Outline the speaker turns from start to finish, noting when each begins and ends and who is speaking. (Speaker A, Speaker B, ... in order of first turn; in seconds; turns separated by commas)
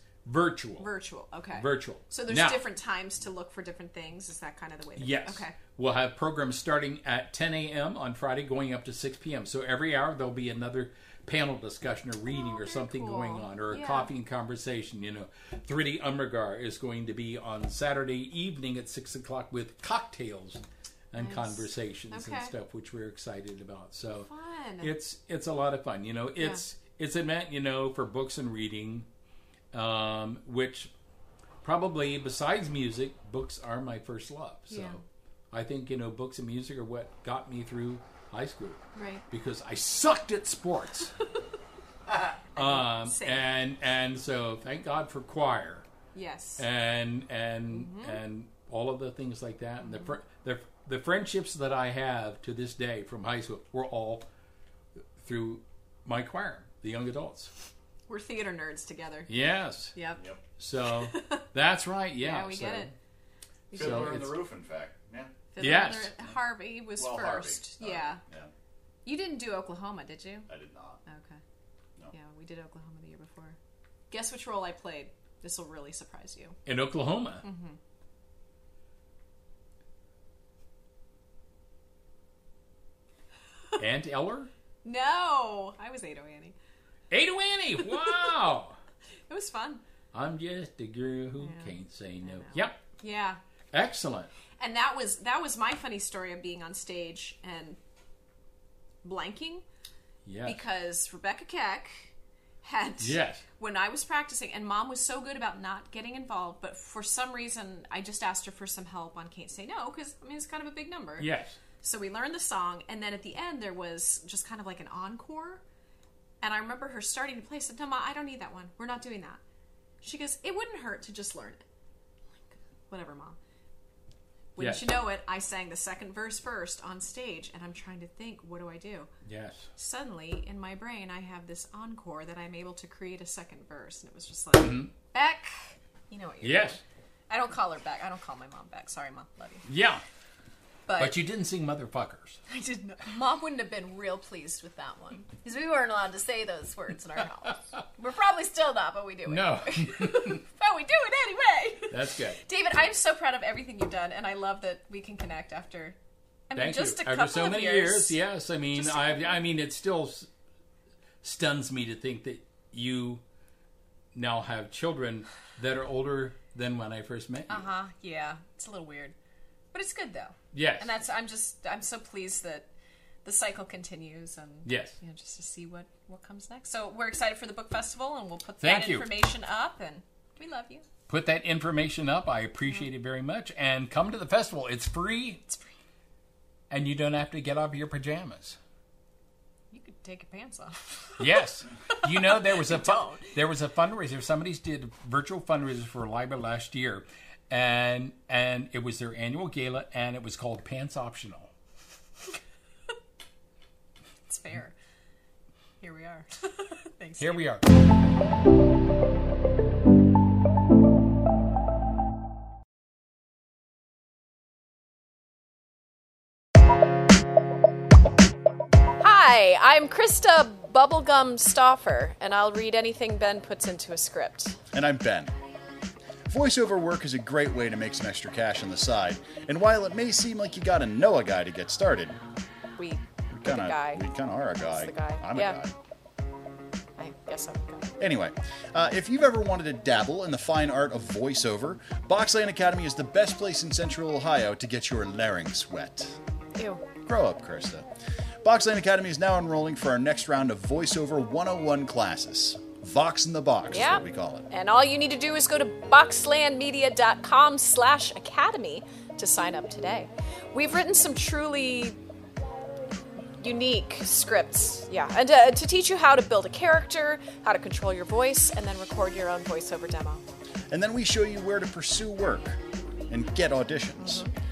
Speaker A: 0.2-0.9, Speaker B: 0.8-5.5, Speaker A: 1.5-2.6, Speaker A: 5.0-24.3, Speaker B: 12.3-14.1, Speaker B: 21.2-22.5, Speaker B: 24.2-24.9, Speaker A: 24.8-29.1, Speaker A: 29.7-30.9, Speaker A: 31.6-41.1, Speaker B: 34.7-35.0, Speaker B: 38.9-39.2, Speaker A: 42.5-45.9, Speaker B: 42.5-43.5, Speaker B: 46.1-46.6, Speaker A: 46.6-54.3, Speaker B: 47.7-48.2, Speaker A: 55.2-57.5, Speaker B: 58.1-59.3, Speaker A: 59.3-59.9, Speaker B: 59.9-60.2, Speaker A: 60.6-62.9, Speaker B: 60.9-61.5, Speaker B: 62.2-62.9, Speaker B: 63.7-64.2, Speaker A: 63.7-64.4, Speaker C: 63.7-65.3, Speaker B: 65.5-68.2, Speaker A: 65.6-66.1, Speaker C: 67.0-68.5, Speaker B: 69.0-70.5, Speaker C: 70.5-71.0, Speaker B: 71.0-71.4, Speaker B: 72.1-73.6, Speaker B: 74.1-76.6, Speaker A: 76.7-77.4, Speaker B: 77.4-77.8, Speaker A: 83.8-84.5, Speaker B: 84.8-86.5, Speaker A: 87.1-88.8, Speaker B: 87.8-88.3, Speaker B: 89.3-89.8, Speaker A: 90.1-92.8, Speaker B: 91.4-93.4, Speaker A: 93.7-94.3, Speaker B: 94.6-97.8, Speaker B: 99.0-99.6, Speaker A: 100.2-100.6, Speaker B: 100.4-115.6, Speaker A: 103.0-103.4, Speaker A: 111.2-111.6, Speaker B: 116.4-119.4, Speaker B: 120.0-121.6, Speaker B: 122.4-123.4, Speaker B: 124.5-129.1, Speaker A: 124.6-124.9, Speaker A: 129.2-129.7, Speaker B: 129.8-139.7, Speaker A: 134.6-134.9, Speaker A: 136.4-136.8, Speaker A: 139.6-140.0, Speaker B: 140.8-141.2, Speaker A: 141.0-142.4, Speaker B: 142.5-156.0, Speaker A: 149.3-150.4, Speaker A: 151.9-152.4, Speaker B: 156.5-158.2, Speaker A: 156.5-160.3, Speaker B: 158.7-159.3, Speaker A: 161.2-163.2, Speaker A: 164.1-167.7, Speaker B: 167.5-169.1, Speaker B: 169.7-172.7, Speaker A: 170.5-170.9, Speaker B: 173.2-180.9, Speaker A: 174.6-175.0, Speaker A: 178.6-179.1, Speaker A: 181.1-185.4, Speaker A: 186.7-188.6, Speaker B: 189.7-193.3, Speaker A: 191.2-201.5, Speaker B: 204.3-204.7, Speaker B: 205.8-207.4, Speaker A: 207.2-207.6, Speaker B: 219.0-224.6, Speaker C: 224.7-225.3, Speaker C: 226.3-232.2, Speaker B: 232.8-235.6, Speaker C: 233.3-235.7, Speaker B: 237.0-238.0, Speaker C: 238.0-246.2, Speaker B: 246.6-246.8, Speaker C: 247.0-247.9, Speaker C: 248.4-254.5, Speaker B: 253.7-262.0, Speaker B: 263.4-270.2, Speaker C: 270.7-272.6, Speaker C: 273.1-274.2, Speaker B: 274.0-274.3